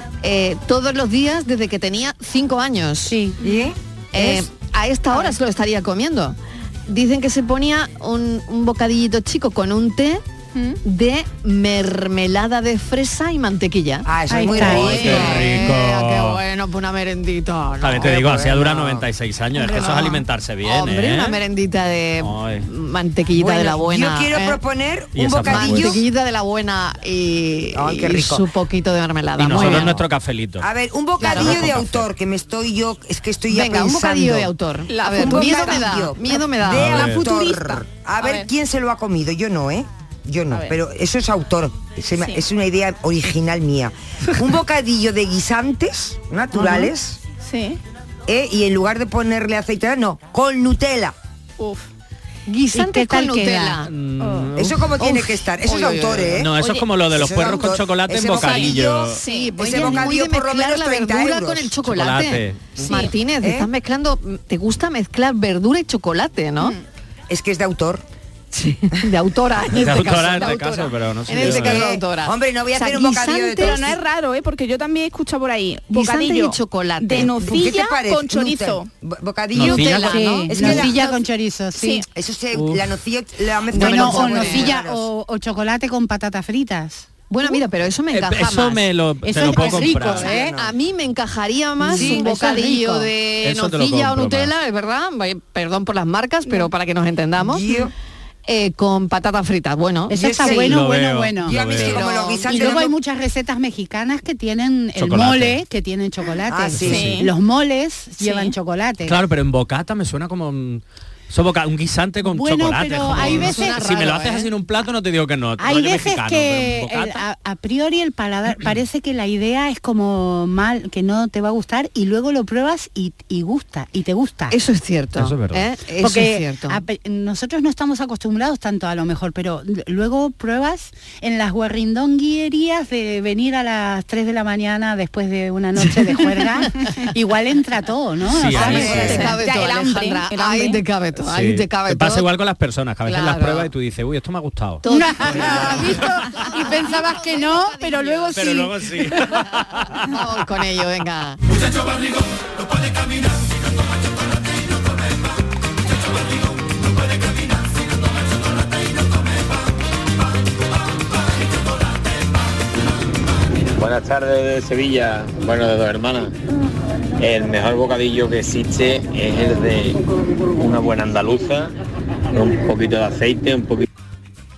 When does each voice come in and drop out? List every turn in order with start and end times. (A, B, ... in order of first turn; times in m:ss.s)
0:00.2-0:03.2 A
0:03.1-0:03.4 B
0:03.4-0:04.4 C
0:04.1-0:06.4 A
0:06.9-0:10.2 A
0:10.8-0:18.3 A
0:14.0-0:15.5 C
0:14.3-0:15.1 B
0:14.6-0:16.4 D
0:17.8-0:21.4 D
0:18.0-0:19.0 C
0:19.6-0:24.6 A
0:22.2-0:22.7 D
0:23.4-0:26.0 C
0:25.2-0:26.0 D
0:25.5-0:30.0 A
0:27.7-0:28.4 C
0:29.4-0:30.7 D
0:30.6-0:34.5 C
0:31.2-0:31.7 A
0:31.2-0:32.1 D
0:33.5-0:37.3 A
0:34.9-0:36.0 E
0:35.1-0:47.2 C
0:36.7-0:37.3 D
0:37.2-0:38.5 E
0:40.5-0:40.8 E
0:42.2-0:42.4 E
0:46.7-0:47.8 E
0:48.3-0:51.1 C
0:51.6-0:51.9 E
0:52.5-0:53.9 A
0:52.7-0:53.8 B
0:53.8-0:55.1 D
0:54.2-0:54.5 E
0:54.6-1:01.7 C
0:55.0-0:56.4 A
0:56.2-0:59.2 D
0:58.3-1:06.8 A
0:59.2-0:59.7 E
1:01.8-1:02.8 D
1:03.4-1:03.7 C
1:07.3-1:08.0 C
1:08.5-1:13.9 A
1:09.7-1:11.9 D
1:11.3-1:14.0 C
1:13.6-1:18.9 E
1:15.9-1:17.5 A
1:17.2-1:21.1 C
1:19.5-1:20.8 D
1:19.6-1:20.8 A
1:20.1-1:22.0 B
1:21.8-1:22.0 E
1:22.1-1:25.1 C
1:22.5-1:22.9 D
1:23.7-1:24.8 A
1:23.7-1:27.1 B
1:27.3-1:28.8 A
1:28.1-1:30.4 D
1:29.2-1:30.6 B
1:29.5-1:30.7 C
1:29.7-1:37.6 A
1:31.8-1:33.1 B
1:31.9-1:32.3 C
1:33.4-1:34.5 D
1:37.4-1:37.9 C
1:38.5-1:40.2 A
1:40.1-1:41.7 B
1:40.1-1:40.8 C
1:40.4-1:42.0 D
1:41.4-1:43.0 C
1:41.8-1:42.8 A
1:42.5-1:49.2 B
1:45.0-1:45.6 D
1:46.5-1:47.2 C
1:46.8-1:47.3 E
1:49.0-1:57.2 D
1:52.2-1:54.0 B
1:53.2-1:54.5 A
1:55.6-2:04.6 B
2:04.5-2:06.8 A
2:05.2-2:05.7 D
2:06.0-2:19.7 B
2:18.3-2:19.3 D
2:18.5-2:22.3 A
2:18.7-2:19.1 C
2:18.9-2:20.8 E
2:21.2-2:24.8 D
2:23.1-2:23.7 A
2:24.8-2:28.4 A
2:24.9-2:29.4 B
2:28.4-2:30.1 D
2:29.4-2:31.4 A
2:43.8-2:46.3 F
2:47.2-2:50.0 F
2:50.6-2:51.7 F
2:52.3-2:53.9 F